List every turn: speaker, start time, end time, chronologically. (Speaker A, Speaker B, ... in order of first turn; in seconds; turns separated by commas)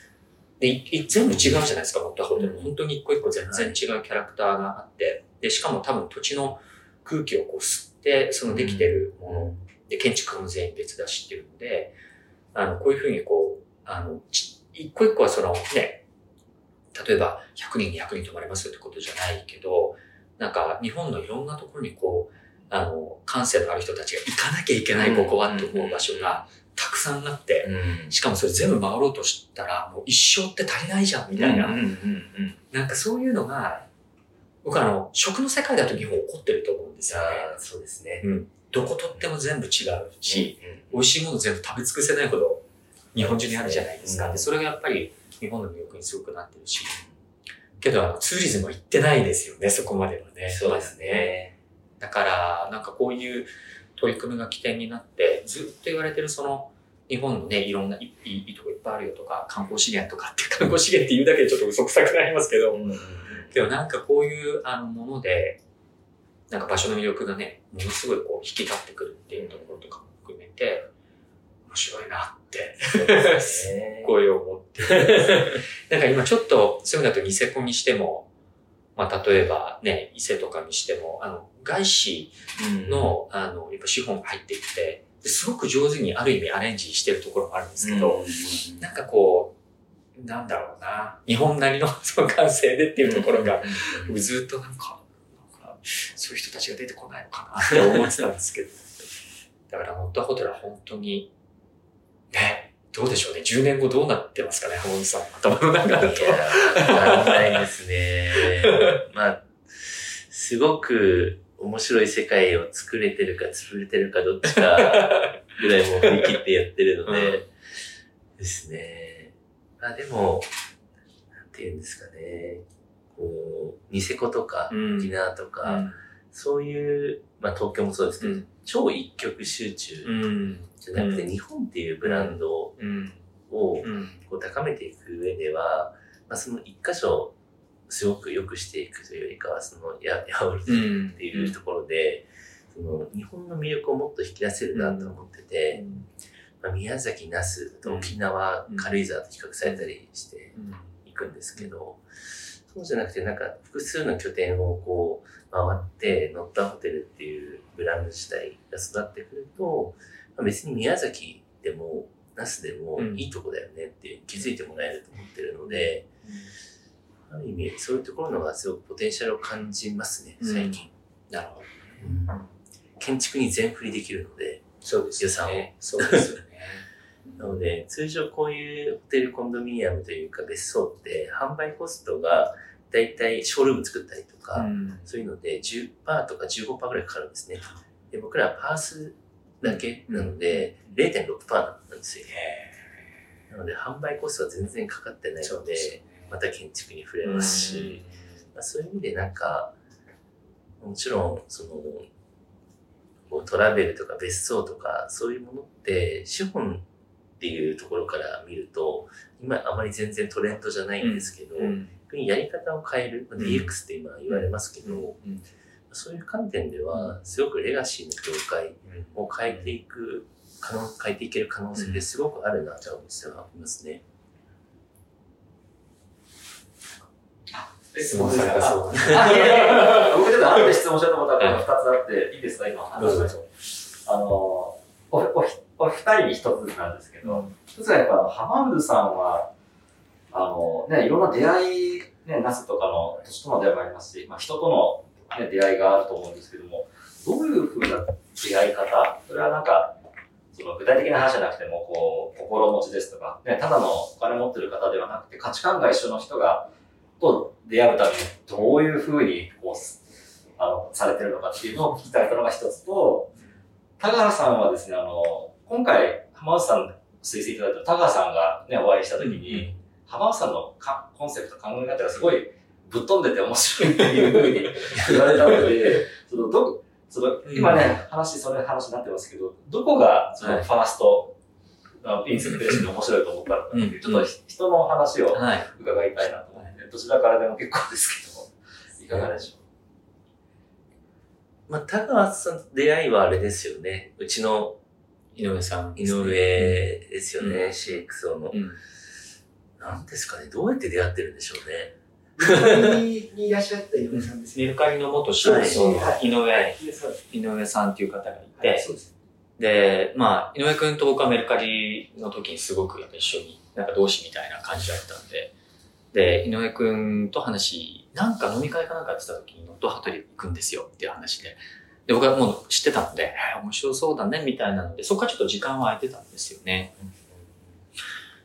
Speaker A: 0.6-11.9, Speaker B: 2.4-2.7, Speaker B: 3.5-3.7, Speaker B: 8.5-9.6, Speaker A: 12.5-16.0, Speaker A: 16.9-31.8, Speaker B: 24.9-26.4, Speaker B: 27.6-28.1, Speaker B: 31.3-32.6, Speaker A: 32.7-33.9, Speaker A: 34.6-37.5, Speaker B: 37.1-38.2, Speaker A: 38.2-47.0, Speaker B: 40.3-41.1, Speaker B: 43.1-44.5, Speaker A: 47.8-51.3, Speaker B: 50.5-51.5, Speaker A: 52.0-62.8, Speaker B: 62.7-63.5, Speaker A: 63.5-65.6, Speaker A: 66.5-70.9, Speaker B: 69.3-69.8, Speaker A: 71.7-78.3, Speaker B: 72.9-74.1, Speaker B: 75.0-75.5, Speaker A: 79.0-89.5, Speaker B: 82.6-83.1, Speaker B: 87.8-88.8, Speaker A: 90.2-98.9, Speaker B: 93.0-94.1, Speaker A: 99.7-101.3, Speaker A: 102.3-107.6, Speaker B: 105.8-117.5, Speaker A: 108.6-109.0, Speaker A: 114.5-115.4, Speaker A: 116.0-116.3, Speaker A: 117.1-117.4, Speaker B: 118.4-120.5, Speaker B: 121.3-130.1, Speaker A: 124.7-125.1, Speaker A: 125.6-126.0, Speaker A: 128.2-128.5, Speaker A: 130.0-131.2, Speaker B: 130.8-132.8, Speaker A: 132.0-133.2, Speaker B: 133.5-137.3, Speaker A: 133.8-134.2, Speaker B: 137.9-145.8, Speaker A: 140.7-141.6, Speaker A: 144.7-145.2, Speaker A: 145.7-146.1, Speaker B: 146.6-152.0, Speaker A: 147.8-148.2, Speaker A: 148.7-149.0, Speaker A: 150.5-150.9, Speaker B: 152.7-166.1, Speaker A: 162.9-163.2, Speaker A: 165.7-166.5, Speaker B: 167.3-170.9, Speaker A: 170.4-172.4, Speaker B: 172.0-172.3, Speaker B: 173.0-176.3, Speaker A: 174.8-177.6, Speaker B: 177.4-192.3, Speaker A: 184.5-185.1, Speaker A: 189.6-190.9, Speaker A: 192.2-193.0, Speaker B: 193.5-199.7, Speaker A: 195.4-196.3, Speaker A: 197.2-198.2, Speaker B: 200.8-202.1, Speaker B: 203.3-206.8, Speaker B: 207.4-215.2, Speaker A: 211.0-211.9, Speaker A: 213.4-213.7, Speaker A: 214.3-215.4, Speaker B: 215.9-224.0, Speaker A: 218.9-219.7, Speaker A: 221.8-222.0, Speaker A: 227.5-230.1, Speaker C: 227.9-233.5, Speaker A: 231.4-231.6, Speaker A: 233.0-233.5, Speaker C: 234.0-239.5, Speaker C: 240.3-250.0, Speaker C: 250.5-260.0, Speaker C: 260.6-263.3, Speaker C: 264.0-281.3, Speaker A: 269.2-269.7, Speaker A: 277.4-277.9, Speaker A: 280.4-280.7, Speaker C: 282.0-289.6, Speaker A: 282.4-282.8, Speaker A: 283.7-284.3, Speaker A: 285.3-285.7, Speaker B: 291.7-294.8, Speaker A: 295.4-297.9, Speaker B: 295.9-298.6, Speaker A: 298.5-298.8, Speaker B: 299.8-302.9, Speaker D: 302.4-307.2, Speaker A: 304.1-306.8, Speaker B: 305.4-306.7, Speaker A: 307.3-308.9, Speaker D: 308.6-309.1, Speaker A: 309.6-315.5, Speaker A: 316.1-326.9, Speaker B: 327.0-327.6